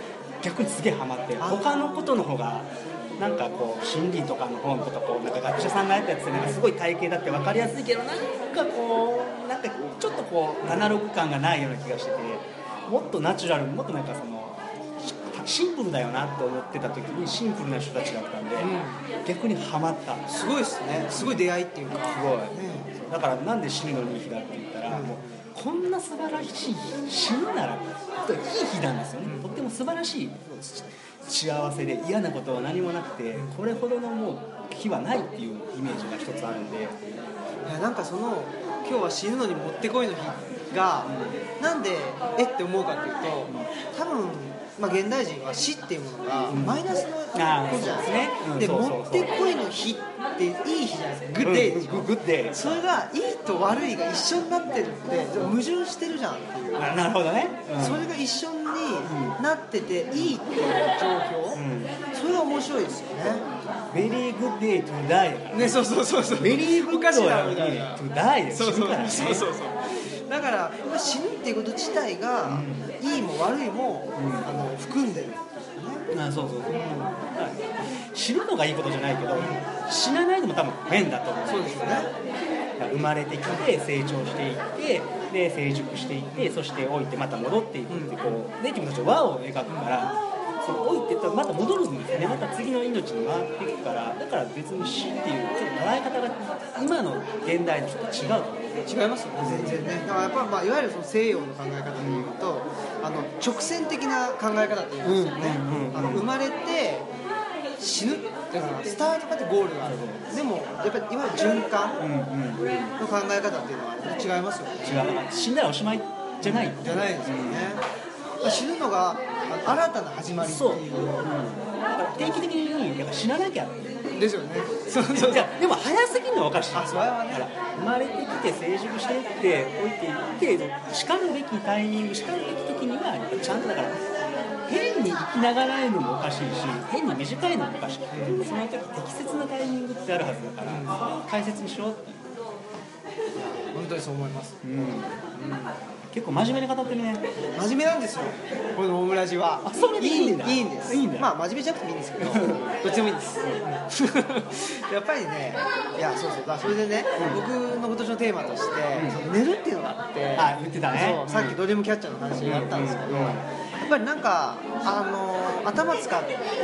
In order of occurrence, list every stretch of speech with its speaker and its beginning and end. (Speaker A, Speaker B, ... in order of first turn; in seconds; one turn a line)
Speaker A: 0.4-18.7
Speaker B: 1.4-2.1
Speaker B: 10.6-10.9
Speaker B: 18.6-19.0
Speaker A: 19.2-20.2
Speaker B: 20.3-22.9
Speaker A: 21.1-21.4
Speaker A: 22.1-37.0
Speaker B: 24.9-25.4
Speaker B: 29.2-29.5
Speaker B: 33.3-33.6
Speaker B: 37.6-57.0
Speaker A: 41.0-41.4
Speaker A: 46.5-49.3
Speaker A: 51.4-52.8
Speaker A: 56.8-58.1
Speaker B: 57.8-63.5
Speaker A: 59.0-59.4
Speaker A: 60.1-60.4
Speaker A: 61.5-62.0
Speaker A: 63.9-69.5
Speaker B: 65.5-76.1
Speaker A: 72.4-72.9
Speaker A: 74.2-74.5
Speaker A: 76.1-82.1
Speaker B: 76.7-77.1
Speaker B: 79.3-79.6
Speaker B: 81.5-82.1
Speaker A: 82.8-98.6
Speaker B: 86.3-86.6
Speaker B: 87.9-88.4
Speaker B: 89.7-89.9
Speaker B: 98.8-107.1
Speaker A: 99.4-100.5
Speaker A: 102.0-102.3
Speaker A: 105.0-106.3
Speaker B: 107.8-112.1
Speaker A: 109.8-110.3
Speaker A: 112.0-112.9
Speaker B: 113.0-115.1
Speaker A: 114.8-117.8
Speaker B: 116.4-117.8
Speaker B: 118.4-121.3
Speaker A: 120.4-124.0
Speaker B: 124.1-125.5
Speaker A: 125.1-134.1
Speaker B: 126.7-127.5
Speaker A: 134.7-142.3
Speaker B: 138.1-138.5
Speaker B: 140.6-141.0
Speaker B: 143.3-144.6
Speaker A: 144.6-145.2
Speaker B: 145.3-145.8
Speaker A: 146.1-147.2
Speaker B: 147.5-166.4
Speaker A: 149.6-151.3
Speaker A: 152.2-152.8
Speaker A: 157.2-157.4
Speaker A: 158.9-159.2
Speaker A: 160.3-161.6
Speaker A: 162.4-163.4